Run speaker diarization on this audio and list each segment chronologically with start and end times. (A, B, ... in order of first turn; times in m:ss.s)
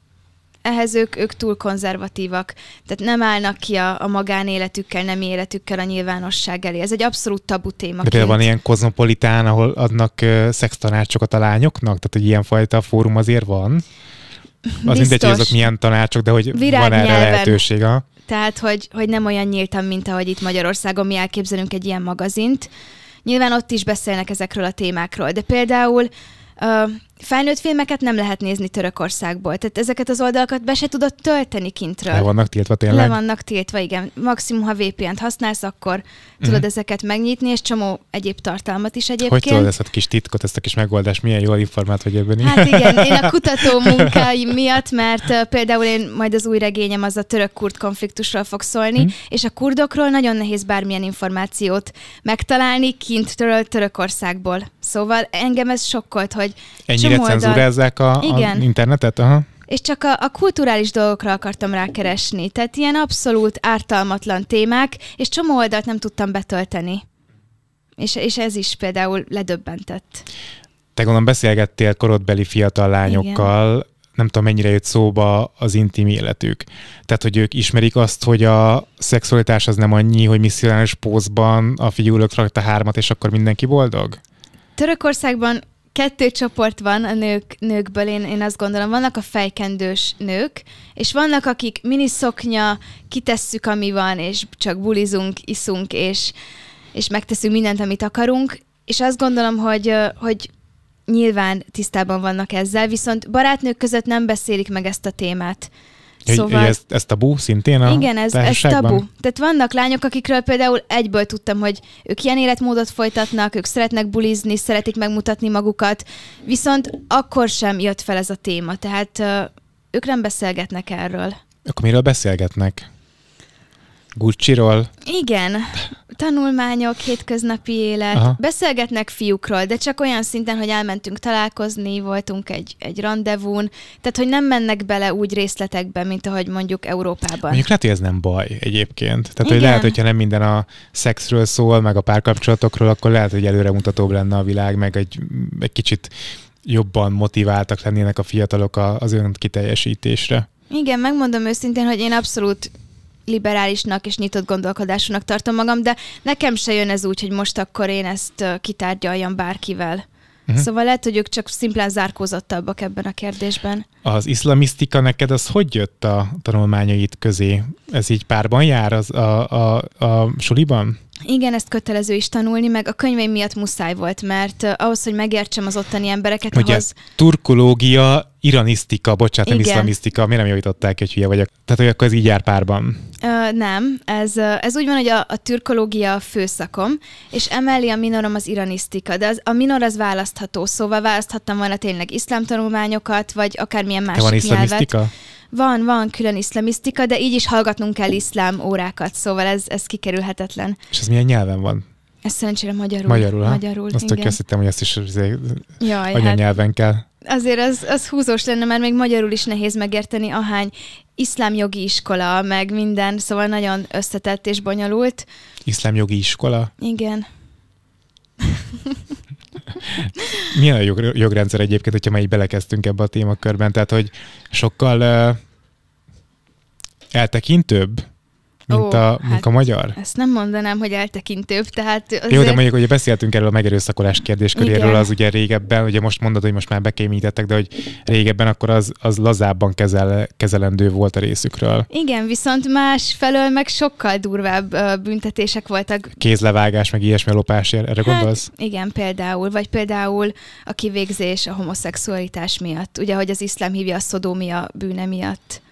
0:00.6-0:08.4 A
0:08.0-0:13.8 B
0:14.7-0:15.6 A
0:14.8-0:18.0 B
0:16.5-0:17.6 A
0:18.2-0:22.7 A
0:23.2-0:32.3 A
0:32.1-0:33.2 B
0:32.9-0:39.7 A
0:39.2-0:44.2 B
0:42.4-0:57.6 A
0:56.9-0:59.5 B
0:58.2-0:58.6 A
0:59.7-1:07.0 A
1:08.0-1:10.2 A
1:11.0-1:24.2 B
1:13.0-1:13.5 A
1:24.8-1:36.3 A
1:36.9-1:40.5 A
1:41.1-1:45.7 A
1:46.3-1:49.0 B
1:46.3-1:46.8 A
1:47.8-2:01.4 A
2:01.6-2:02.9 B
2:04.2-2:04.9 B
2:05.0-2:17.6 A
2:17.5-2:26.1 B
2:19.4-2:20.0 A
2:26.6-2:30.5 B
2:30.7-2:32.7 A
2:33.3-2:40.0 A
2:40.6-2:43.8 A
2:44.0-2:51.0 B
2:51.2-2:57.0 A
2:56.5-3:03.1 B
2:59.4-2:59.9 A
3:03.2-3:14.9 A
3:14.1-3:15.1 B
3:15.5-3:20.8 A
3:20.9-3:21.8 B
3:22.2-3:24.4 A
3:23.0-3:27.0 B
3:25.8-3:26.4 A
3:27.2-3:35.3 A
3:35.6-3:36.7 B
3:36.8-3:37.3 A
3:38.4-3:39.0 A
3:39.9-3:45.4 B
3:47.1-3:48.0 B
3:48.7-3:50.0 B
3:48.7-3:52.6 A
3:52.3-4:01.9 B
3:54.6-3:55.1 A
4:01.9-4:06.2 A
4:06.2-4:08.5 B
4:08.0-4:15.6 A